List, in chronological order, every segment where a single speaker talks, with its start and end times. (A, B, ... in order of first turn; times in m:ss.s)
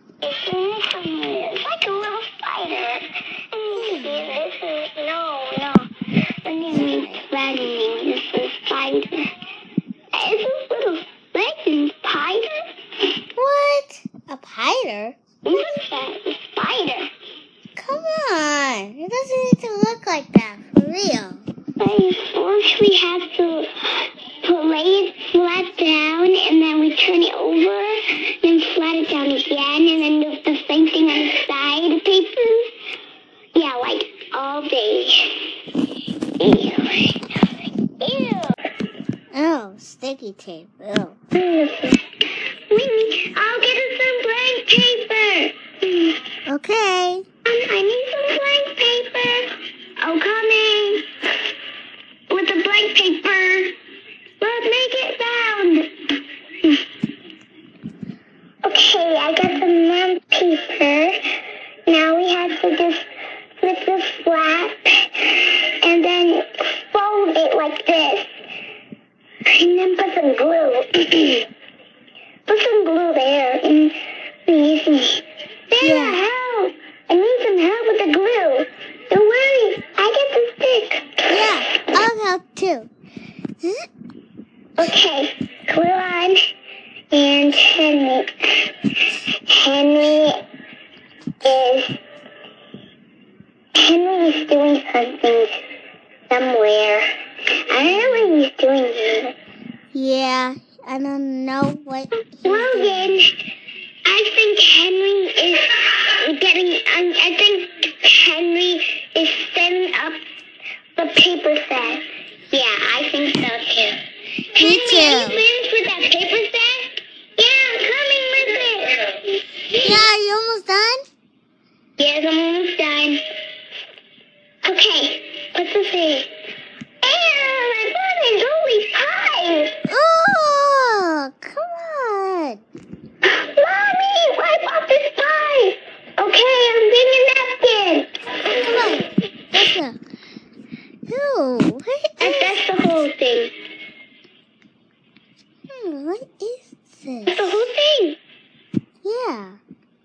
0:00.2-0:05.9 A
0:03.8-0:04.3 B
0:06.4-0:09.3 A
0:06.7-0:07.2 B
0:10.1-0:12.7 A
0:13.4-0:15.2 B
0:15.4-0:17.1 A
0:17.8-0:21.5 B
0:21.8-0:32.7 A
0:33.6-0:35.5 A
0:36.4-0:38.6 A
0:39.3-0:41.2 B
0:41.3-0:42.0 A
0:42.7-0:46.2 A
0:46.5-0:47.2 B
0:47.5-0:51.1 A
0:52.3-0:53.8 A
0:54.4-0:56.1 A
0:58.6-1:01.2 A
1:01.9-1:03.1 A
1:03.6-1:08.3 A
1:09.5-1:11.5 A
1:12.5-1:14.0 A
1:14.5-1:21.4 A
1:15.8-1:16.2 B
1:21.3-1:22.9 B
1:23.6-1:23.9 B
1:24.8-1:26.4 A
1:27.1-1:30.4 A
1:31.4-1:32.0 A
1:33.8-1:35.6 A
1:36.3-1:37.1 A
1:37.7-1:39.4 A
1:37.9-1:38.3 B
1:39.9-1:43.2 B
1:42.4-1:43.4 A
1:44.1-1:50.2 A
1:51.0-1:54.0 A
1:54.5-1:59.2 A
1:54.6-1:55.4 B
1:59.8-2:01.0 B
2:02.0-2:03.2 A
2:04.6-2:06.3 A
2:07.0-2:09.8 A
2:09.9-2:12.6 B
2:13.3-2:18.6 A
2:18.6-2:20.0 B
2:21.1-2:22.5 B
2:22.2-2:23.5 A
2:25.7-2:27.5 B
2:27.3-2:28.2 A
2:29.0-2:29.6 B